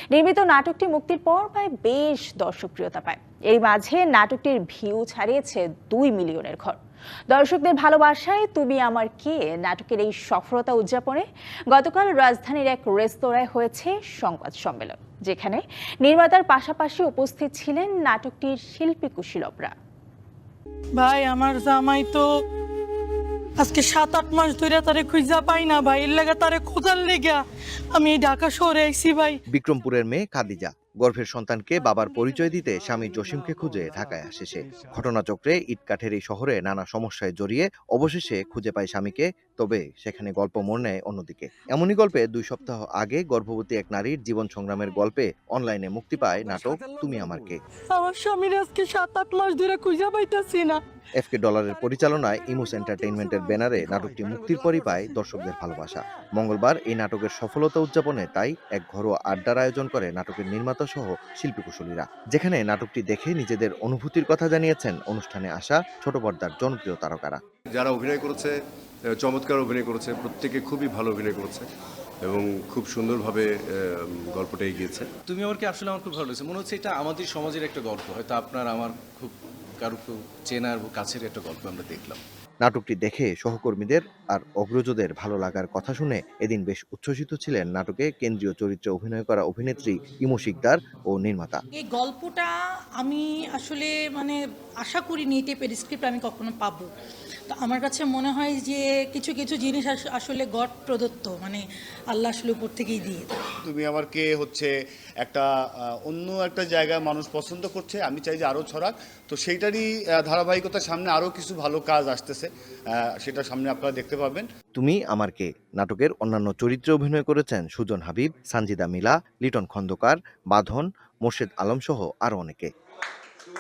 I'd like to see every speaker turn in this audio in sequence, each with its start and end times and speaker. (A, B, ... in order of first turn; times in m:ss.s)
0:00.1-0:06.8 A
0:07.3-0:19.7 A
0:21.0-0:22.2 B
0:23.6-0:27.4 B
0:28.0-0:29.4 B
0:29.5-0:47.6 C
0:47.9-0:50.8 B
0:51.2-1:07.4 C
1:09.3-1:11.5 D
1:12.2-1:13.4 D
1:14.3-1:14.9 D
1:15.3-1:22.2 E
1:22.6-1:31.6 C
1:31.8-1:32.5 F
1:33.0-1:36.9 F
1:37.5-1:41.6 F
1:42.1-1:43.3 F
1:43.6-1:44.7 G
1:46.0-1:54.4 G
1:54.8-2:02.7 C